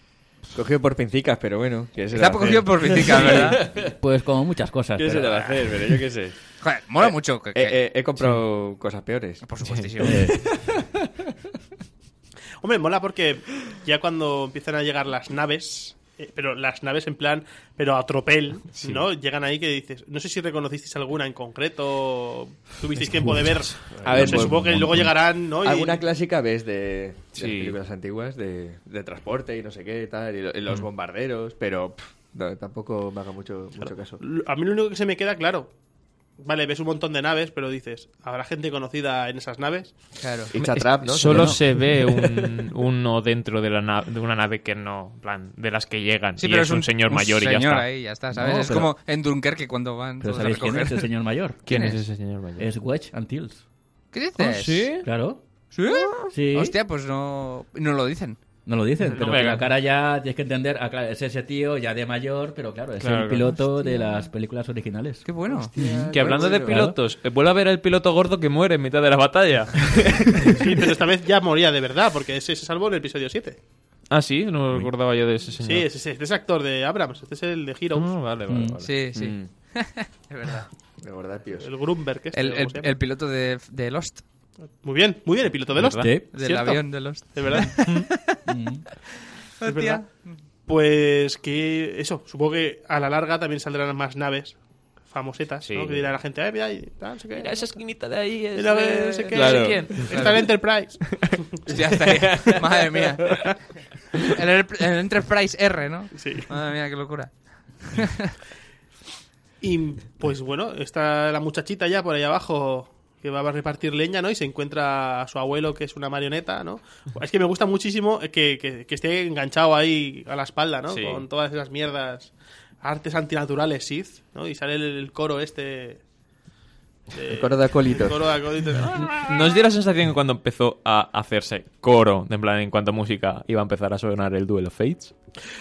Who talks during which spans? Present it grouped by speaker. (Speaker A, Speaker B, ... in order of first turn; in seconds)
Speaker A: 0.5-3.9, 5.0-6.4, 7.0-9.4, 24.0-25.0, 25.6-34.2, 40.5-42.3, 65.5-66.8, 79.2-79.5, 81.0-81.7, 99.3-100.0, 102.1-102.6, 127.2-128.4
Speaker B: 2.1-3.6, 6.6-7.8, 9.4-10.3, 40.2-40.5, 46.4-51.1, 51.7-52.0, 54.1-55.0, 55.7-58.4, 63.5-64.2, 65.2-65.7, 78.8-80.7, 82.3-84.2, 86.3-88.5, 89.6-90.3, 101.7-103.6, 104.3-108.3
Speaker C: 3.4-5.3, 10.0-10.6, 23.0-25.2, 41.3-41.6, 48.3-48.9, 50.2-51.6, 52.6-53.6, 55.0-55.4, 56.3-56.8, 58.6-67.0, 78.5-78.8, 85.9-86.7, 88.5-88.8
Speaker D: 12.6-26.0, 33.8-35.7, 36.4-39.9, 70.6-73.6, 75.6-78.1, 81.6-83.0, 84.8-86.8, 87.3-87.9, 89.6-90.0, 90.7-97.8, 98.6-101.4, 106.1-106.5, 109.6-126.0, 127.1-129.6
Speaker E: 18.8-19.1, 27.4-27.8, 40.6-47.9, 51.7-52.7, 54.4-55.1, 55.8-56.3, 59.0-59.7, 63.0-63.5, 66.1-70.7, 74.1-75.9, 77.9-78.9, 85.8-86.1, 87.8-88.1, 95.6-96.0, 97.3-100.5, 101.1-101.4, 120.9-121.3, 128.9-135.1